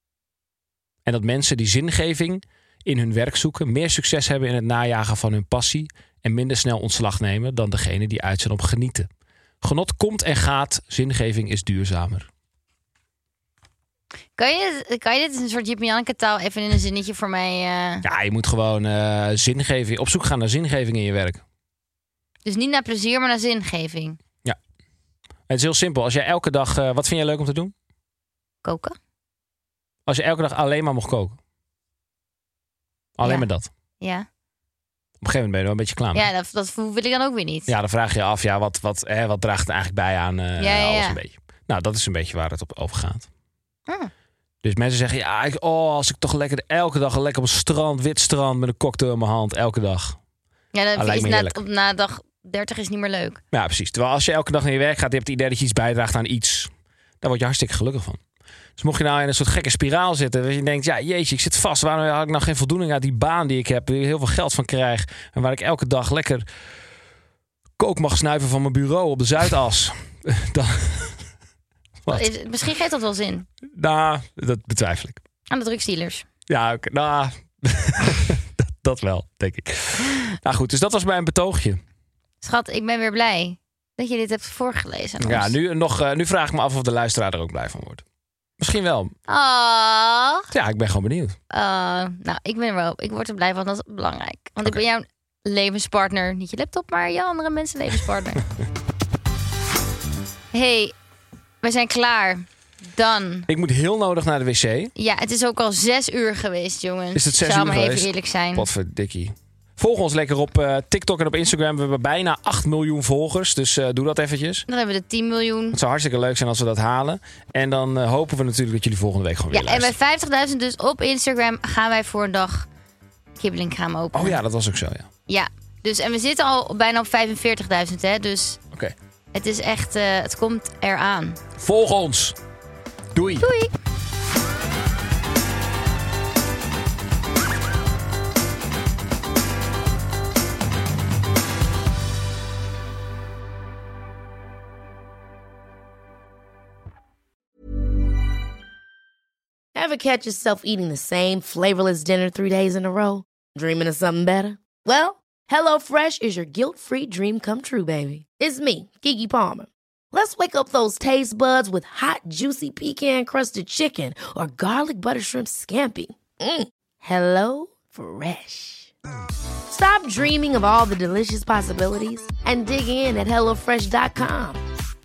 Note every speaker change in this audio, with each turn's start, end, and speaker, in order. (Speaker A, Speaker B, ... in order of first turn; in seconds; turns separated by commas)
Speaker A: 1.0-9.1, Speaker A: 9.6-12.3, Speaker B: 14.4-18.0, Speaker A: 18.0-21.4, Speaker B: 22.4-24.2, Speaker A: 25.5-27.7, Speaker B: 28.6-28.9, Speaker A: 30.1-31.4, Speaker A: 33.2-33.7, Speaker B: 34.0-34.2, Speaker A: 35.2-36.2, Speaker B: 36.1-37.7, Speaker A: 37.7-43.3, Speaker B: 40.6-41.2, Speaker A: 44.6-50.2, Speaker B: 50.7-53.4, Speaker A: 51.0-51.6, Speaker A: 53.5-58.2, Speaker A: 58.8-66.4, Speaker A: 67.8-71.2, Speaker A: 72.0-72.3, Speaker B: 72.1-73.5, Speaker A: 73.6-75.2, Speaker B: 75.5-76.3, Speaker A: 76.5-81.8, Speaker B: 82.4-85.5, Speaker A: 85.2-88.0, Speaker A: 88.6-89.1, Speaker B: 89.3-90.5, Speaker A: 90.5-91.4, Speaker B: 91.5-98.5, Speaker B: 100.5-100.9, Speaker B: 101.6-103.5, Speaker A: 103.5-104.9, Speaker B: 105.0-108.7, Speaker A: 107.1-114.6, Speaker B: 114.7-115.8, Speaker A: 115.7-119.9, Speaker B: 119.5-122.7, Speaker B: 123.4-124.4, Speaker A: 124.1-125.1, Speaker B: 125.3-128.6, Speaker B: 129.3-131.4, Speaker A: 131.6-132.3, Speaker A: 133.1-133.5, Speaker B: 133.4-133.7, Speaker C: 149.7-168.9, Speaker C: 169.7-174.6